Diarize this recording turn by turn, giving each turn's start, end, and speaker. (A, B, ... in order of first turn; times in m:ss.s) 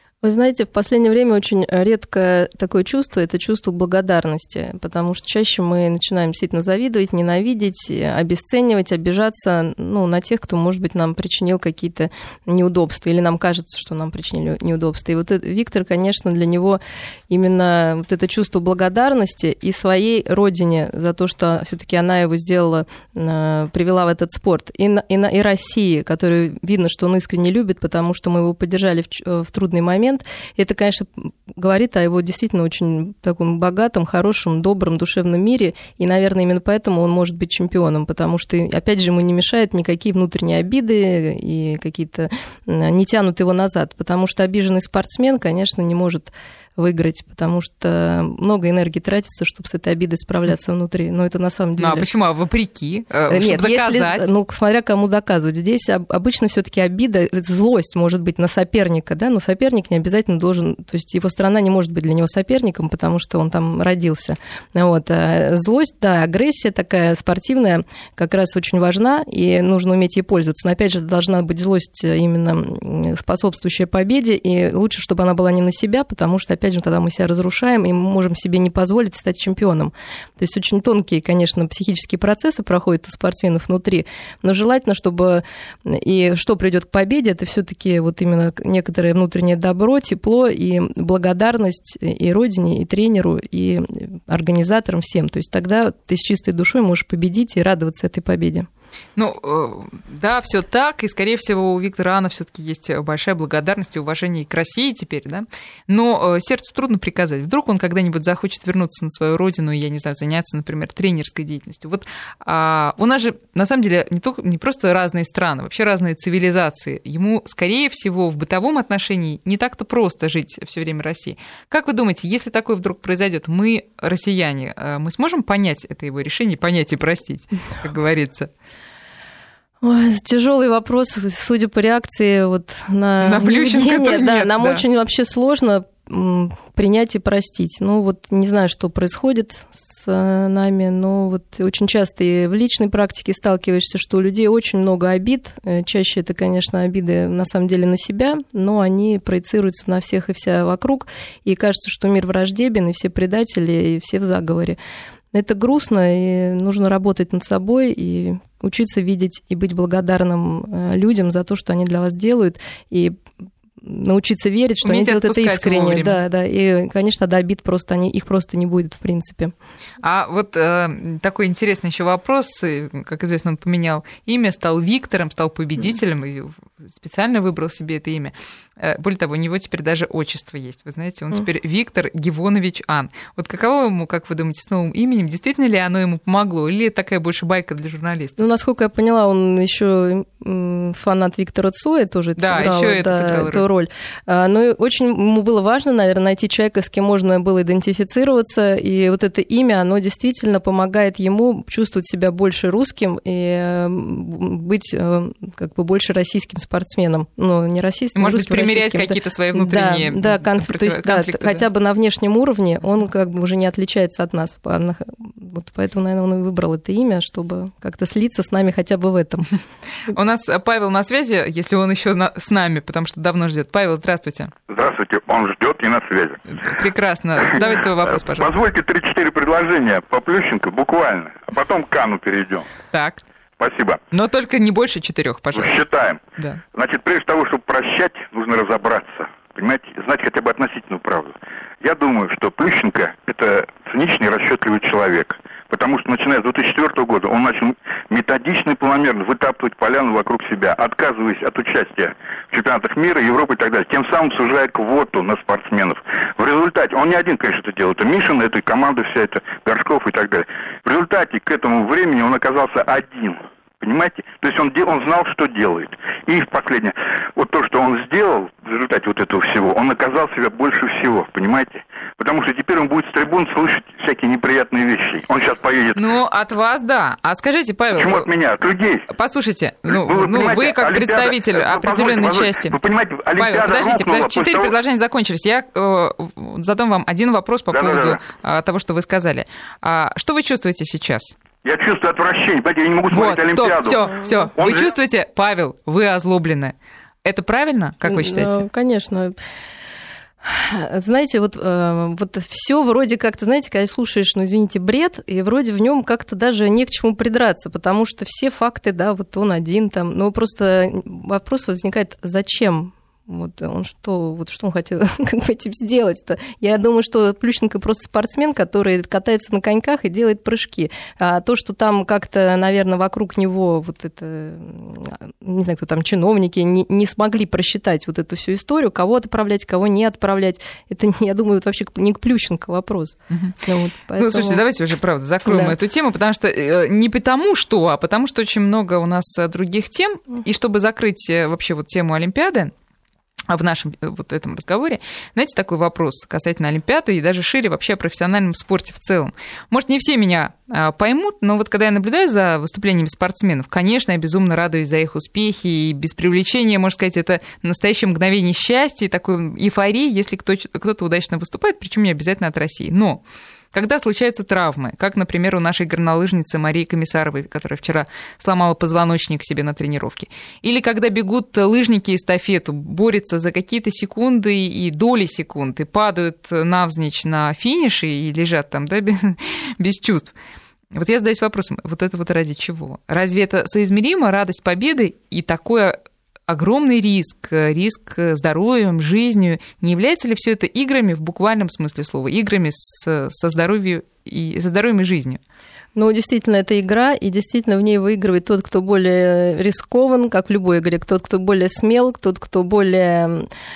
0:00.2-0:52.1 A
0:51.8-0:54.3 B
0:53.3-1:38.7 A
1:39.2-2:08.5 B
2:09.8-2:34.8 A
2:13.2-2:14.8 B
2:35.3-2:43.2 A
2:43.8-2:49.5 A
2:44.8-2:46.2 B
2:50.0-3:08.4 B
3:08.4-3:39.5 A
3:12.4-3:13.6 B
3:28.1-3:31.6 B
3:40.1-3:44.5 B
3:44.7-3:46.4 C
3:46.5-3:48.5 B
3:48.3-3:52.6 C
3:52.9-3:53.2 B
3:53.6-3:54.0 C
3:54.1-3:55.8 B
3:55.5-3:56.2 C
3:56.7-4:36.1 C
4:35.9-4:38.3 B
4:37.9-4:39.0 C
4:39.1-4:42.7 B
4:39.9-4:44.7 C
4:43.3-4:51.4 B
4:47.7-4:48.2 C
4:51.6-4:54.9 C
4:53.1-4:58.6 B
4:58.0-4:59.4 A
5:00.4-5:34.6 A
5:34.2-5:42.7 B
5:35.4-5:35.7 A
5:43.5-6:03.2 B
6:03.7-6:20.3 B
6:20.9-6:35.4 B
6:35.9-6:43.5 A